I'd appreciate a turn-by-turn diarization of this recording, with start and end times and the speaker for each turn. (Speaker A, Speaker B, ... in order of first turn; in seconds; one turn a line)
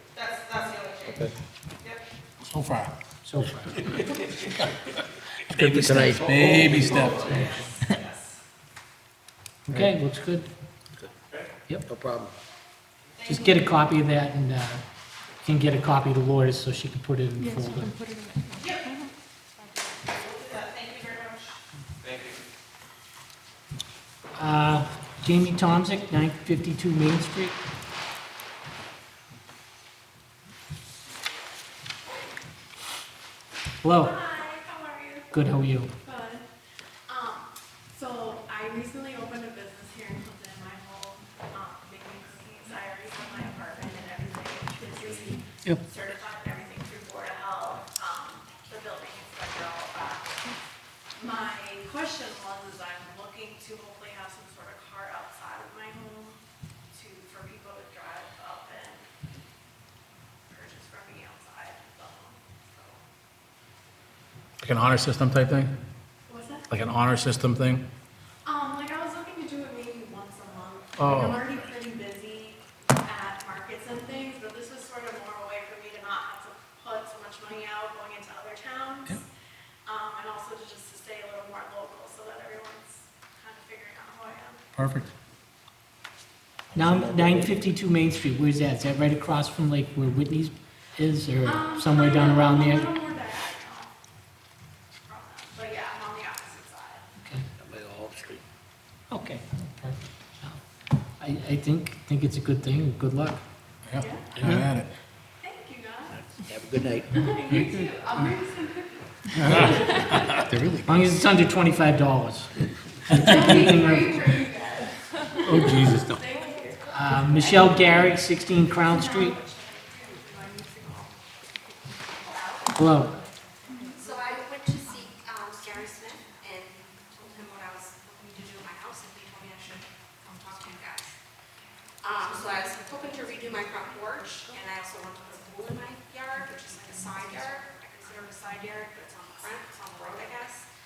Speaker A: 2.4-3.0
Speaker B: 3.2-3.9
Speaker A: 5.5-7.6
Speaker C: 5.5-6.9
Speaker D: 6.7-7.5
Speaker B: 9.7-10.5
Speaker C: 11.9-12.3
Speaker B: 13.2-14.8
Speaker B: 15.4-18.0
Speaker D: 17.4-20.6
Speaker B: 24.4-27.6
Speaker B: 33.8-34.2
Speaker E: 34.0-35.4
Speaker B: 35.3-35.9
Speaker E: 36.0-36.5
Speaker E: 37.1-50.4
Speaker D: 42.4-42.7
Speaker D: 43.3-43.7
Speaker D: 44.4-45.3
Speaker E: 51.2-56.4
Speaker E: 56.9-59.1
Speaker E: 60.5-63.0
Speaker A: 64.6-65.7
Speaker E: 66.3-66.7
Speaker A: 66.7-67.9
Speaker E: 68.4-79.2
Speaker A: 71.0-71.7
Speaker E: 79.8-84.6
Speaker A: 84.7-85.1
Speaker C: 86.7-87.5
Speaker B: 86.7-92.9
Speaker E: 91.4-93.9
Speaker E: 95.0-97.0
Speaker C: 97.6-98.4
Speaker B: 99.1-100.6
Speaker B: 101.2-103.4
Speaker A: 103.8-104.9
Speaker E: 104.0-104.3
Speaker B: 104.3-104.6
Speaker E: 105.4-106.2
Speaker C: 106.4-107.1
Speaker E: 107.0-110.1
Speaker A: 109.4-110.8
Speaker B: 110.8-114.2
Speaker E: 113.2-117.8
Speaker D: 115.3-118.2
Speaker A: 115.4-116.2
Speaker B: 116.9-119.4
Speaker E: 118.8-121.2
Speaker D: 119.8-125.1
Speaker E: 122.2-124.0
Speaker B: 122.8-123.2
Speaker F: 123.9-131.1
Speaker D: 125.6-127.7
Speaker D: 128.3-131.1
Speaker D: 131.7-140.2
Speaker F: 132.0-140.7